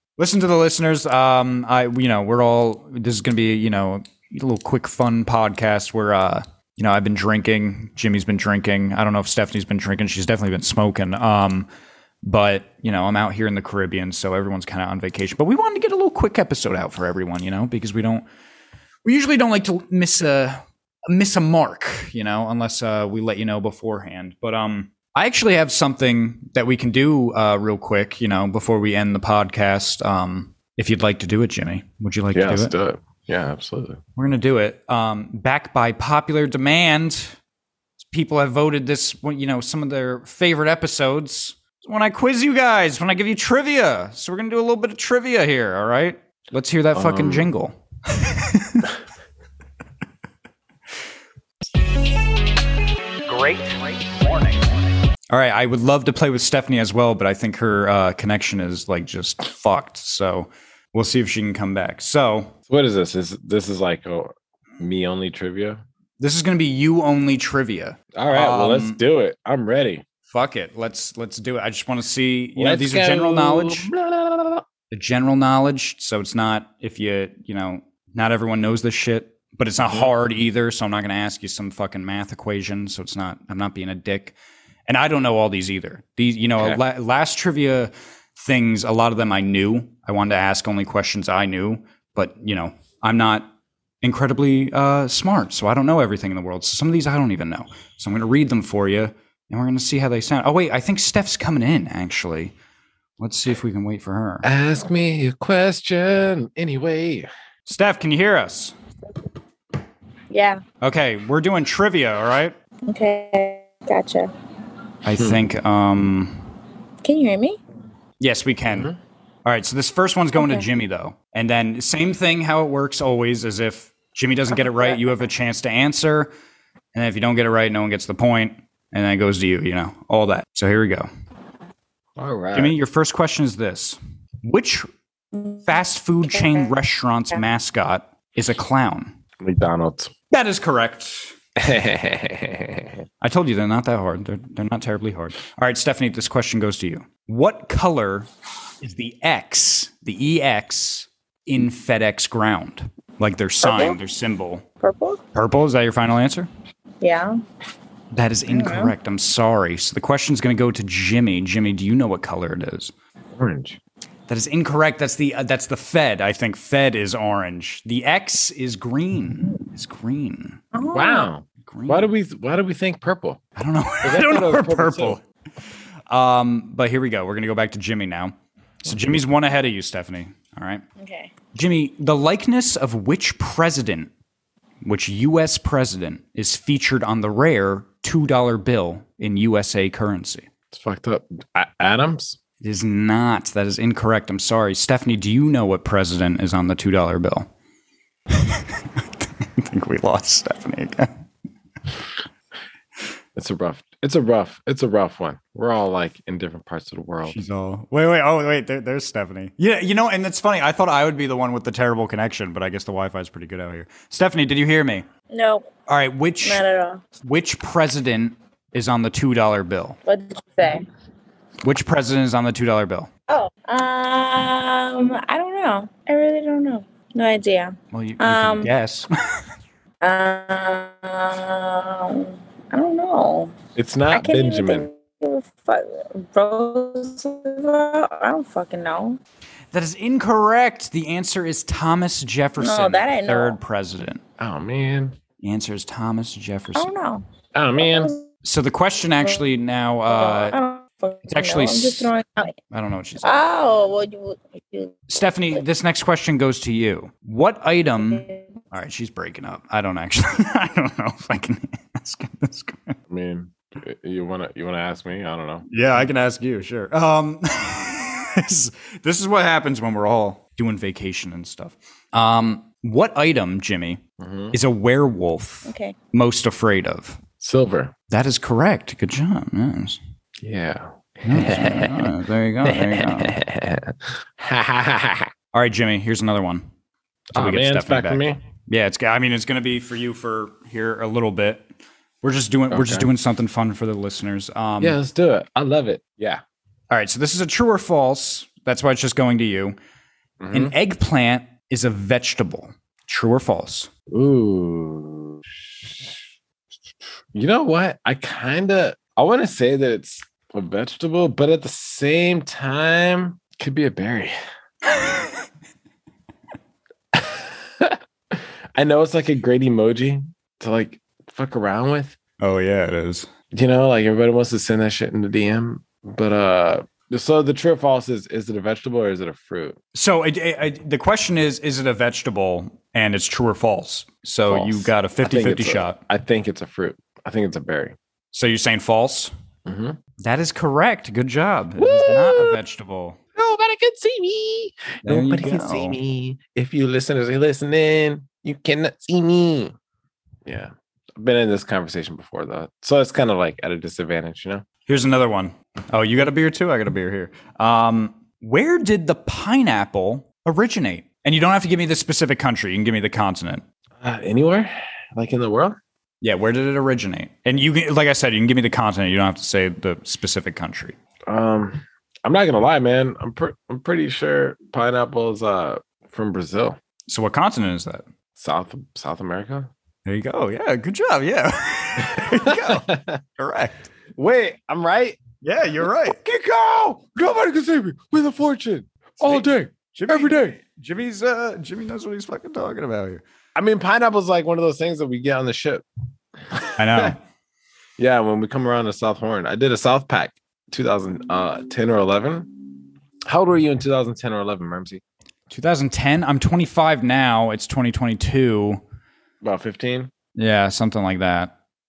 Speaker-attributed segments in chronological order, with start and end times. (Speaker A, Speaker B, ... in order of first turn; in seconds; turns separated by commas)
Speaker A: 0.2-11.7, Speaker A: 12.2-18.2, Speaker A: 19.0-32.7, Speaker B: 32.3-34.0, Speaker A: 34.1-37.4, Speaker A: 38.0-48.9, Speaker B: 46.9-47.5, Speaker A: 53.2-62.5, Speaker B: 62.7-65.8, Speaker A: 66.2-69.0, Speaker B: 68.1-70.0, Speaker A: 70.3-73.9, Speaker B: 72.5-74.6, Speaker A: 74.9-84.3, Speaker B: 79.8-80.1, Speaker A: 84.9-93.5, Speaker A: 94.0-102.5, Speaker A: 103.2-104.5, Speaker B: 104.4-107.3, Speaker A: 107.7-108.7, Speaker C: 110.3-110.6, Speaker A: 110.8-112.5, Speaker C: 112.9-114.3, Speaker A: 115.0-116.5, Speaker B: 115.2-115.4, Speaker C: 117.0-117.6, Speaker A: 118.2-118.9, Speaker B: 118.7-119.0, Speaker A: 119.4-126.3, Speaker C: 120.3-120.6, Speaker A: 126.9-131.1, Speaker B: 132.2-132.8, Speaker A: 132.5-134.9, Speaker C: 135.3-135.8, Speaker A: 135.6-139.1, Speaker C: 136.3-136.7, Speaker B: 139.4-140.1, Speaker A: 140.3-141.3, Speaker B: 141.6-143.0, Speaker A: 143.2-148.3, Speaker A: 148.8-154.6, Speaker C: 153.6-154.0, Speaker C: 154.8-155.2, Speaker A: 155.3-156.5, Speaker C: 157.0-157.4, Speaker A: 158.1-162.9, Speaker C: 158.5-158.9, Speaker B: 163.4-163.8, Speaker A: 164.3-170.6, Speaker C: 170.7-171.3, Speaker B: 170.9-173.4, Speaker A: 171.6-172.1, Speaker A: 173.6-175.2, Speaker B: 174.0-175.2, Speaker A: 176.1-180.8, Speaker C: 181.0-181.3, Speaker A: 181.5-184.1, Speaker A: 184.8-190.5, Speaker B: 190.7-192.4, Speaker A: 192.6-197.5, Speaker A: 198.3-201.1, Speaker B: 203.3-207.4, Speaker A: 207.2-215.1, Speaker C: 215.3-215.7, Speaker A: 215.9-216.6, Speaker C: 216.4-217.0, Speaker A: 217.2-220.0, Speaker C: 220.1-220.9, Speaker A: 221.6-223.1, Speaker C: 223.3-228.7, Speaker A: 227.9-229.1, Speaker C: 230.0-233.5, Speaker B: 233.7-234.9, Speaker C: 234.1-239.2, Speaker A: 239.7-244.2, Speaker C: 242.6-243.6, Speaker B: 244.4-245.2, Speaker A: 245.4-246.9, Speaker C: 246.7-248.3, Speaker B: 247.5-248.1, Speaker A: 248.4-250.6, Speaker C: 250.1-252.6, Speaker A: 251.3-252.1, Speaker A: 252.7-253.5, Speaker C: 253.2-255.6, Speaker A: 255.1-263.0, Speaker C: 258.0-258.5, Speaker B: 263.1-265.6, Speaker A: 265.7-274.0, Speaker B: 274.2-274.6, Speaker A: 274.5-277.2, Speaker C: 275.6-275.9, Speaker B: 277.4-277.9, Speaker A: 278.1-280.0, Speaker B: 280.4-282.1, Speaker A: 281.2-283.4, Speaker B: 282.6-285.3, Speaker A: 285.5-286.6, Speaker B: 287.3-288.4, Speaker A: 287.3-291.6, Speaker A: 292.2-295.0, Speaker B: 292.7-293.1, Speaker B: 294.8-296.4, Speaker A: 296.9-299.8, Speaker B: 300.4-300.7, Speaker A: 300.5-303.9, Speaker B: 304.1-306.2, Speaker B: 307.3-314.3, Speaker A: 314.9-315.4, Speaker B: 317.1-322.1, Speaker A: 322.4-323.3, Speaker B: 323.5-329.8, Speaker A: 329.9-336.0, Speaker B: 334.5-337.9, Speaker A: 338.3-339.3, Speaker B: 339.6-340.0, Speaker A: 340.2-343.2, Speaker B: 341.8-342.6, Speaker B: 343.3-349.7, Speaker A: 345.0-346.0, Speaker B: 350.4-354.6, Speaker A: 354.9-363.6, Speaker B: 364.0-365.8, Speaker A: 366.2-370.9, Speaker B: 371.3-376.8, Speaker A: 377.1-378.0, Speaker B: 378.4-379.7, Speaker A: 380.1-383.9, Speaker B: 382.1-383.2, Speaker B: 384.1-385.2, Speaker A: 385.4-386.2, Speaker B: 385.8-390.6, Speaker A: 389.2-393.2, Speaker B: 393.5-395.8, Speaker B: 396.4-397.1, Speaker A: 396.8-397.2, Speaker B: 398.0-402.7, Speaker B: 403.2-405.0, Speaker A: 405.5-408.8, Speaker B: 409.4-410.1, Speaker A: 410.3-411.5